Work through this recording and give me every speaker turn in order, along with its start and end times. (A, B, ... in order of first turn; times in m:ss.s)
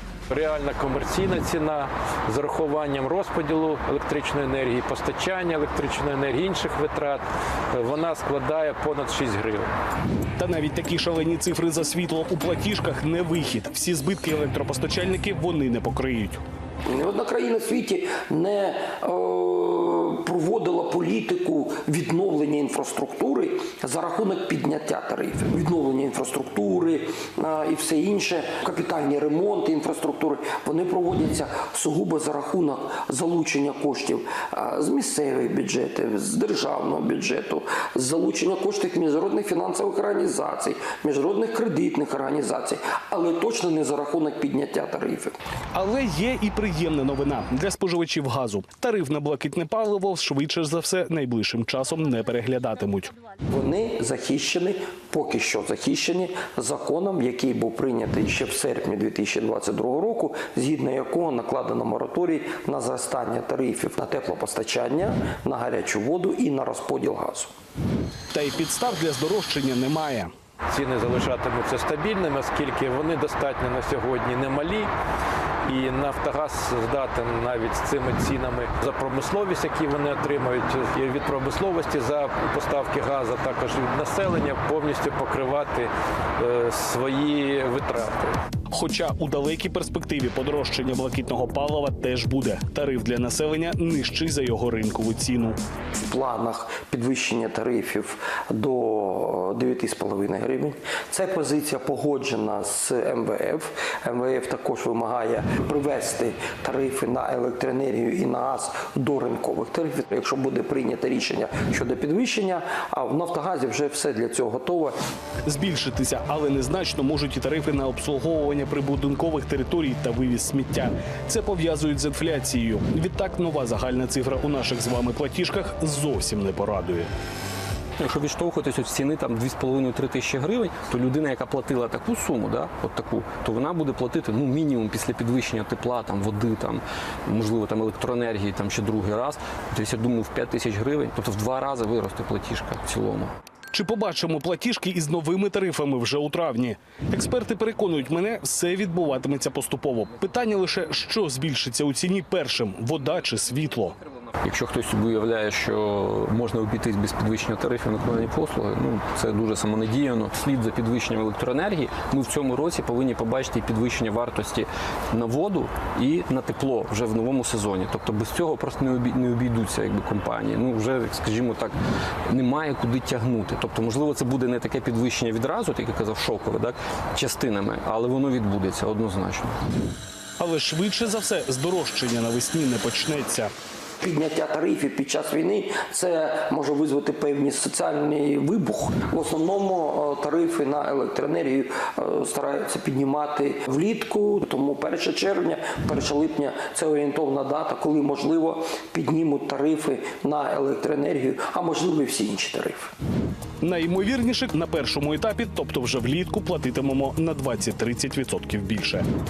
0:00.3-0:09.7 A
0:10.4-0:16.4 B
0:16.9-0:45.4 C
0:45.7-0:53.1 B
0:53.5-1:07.5 C
1:08.3-1:10.3 B
1:10.7-1:14.9 A
1:15.7-1:28.4 A
1:28.7-1:35.6 B
1:36.0-1:55.0 C
1:55.4-2:07.1 B
2:08.0-2:23.3 D
2:23.7-2:34.0 B
2:34.4-2:51.8 D
2:52.3-2:59.6 D
3:00.4-3:03.5 B
3:04.0-3:22.9 C
3:23.6-3:29.1 B